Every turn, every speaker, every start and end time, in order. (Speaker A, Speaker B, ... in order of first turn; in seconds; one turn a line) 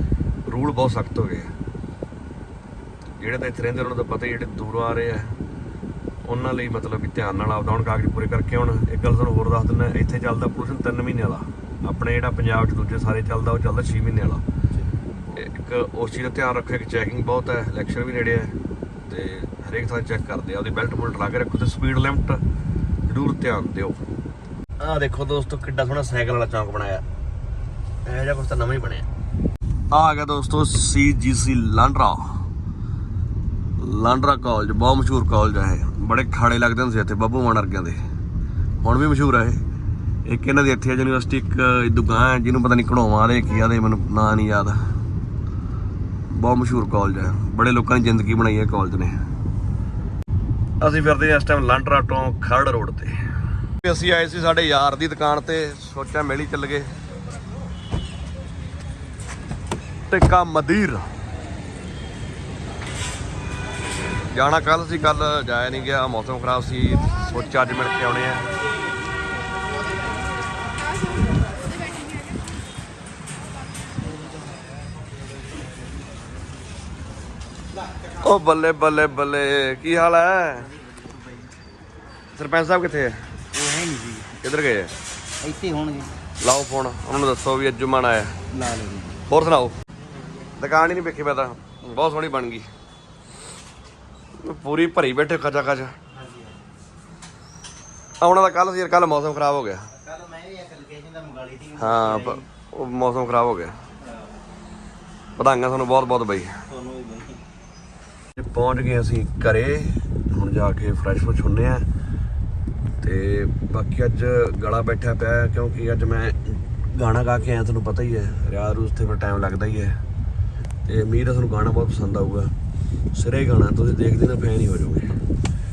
Speaker A: 0.5-1.5
Speaker A: 3.2-5.4
Speaker A: 6.2-14.4
Speaker A: 15.2-18.6
Speaker A: 19.1-22.4
Speaker A: 23.1-24.0
Speaker A: 24.8-27.0
Speaker A: 28.1-29.1
Speaker A: 29.9-32.4
Speaker A: 33.8-38.0
Speaker A: 38.8-39.6
Speaker A: 40.2-44.8
Speaker A: 46.3-49.2
Speaker A: 50.8-53.2
Speaker A: 53.8-56.9
Speaker A: 60.1-61.1
Speaker A: 64.3-68.5
Speaker A: 78.2-80.7
Speaker A: 82.3-83.3
Speaker B: 83.6-84.3
Speaker A: 84.4-84.9
Speaker B: 85.4-86.1
Speaker A: 86.4-88.4
Speaker B: 88.6-89.2
Speaker A: 89.2-89.8
Speaker A: 90.6-92.7
Speaker A: 94.4-96.0
Speaker A: 98.2-99.9
Speaker B: 100.0-101.9
Speaker A: 101.8-103.7
Speaker A: 105.4-106.6
Speaker A: 108.4-111.9
Speaker A: 113.0-120.0
Speaker A: 120.8-122.5
Speaker A: 123.1-125.1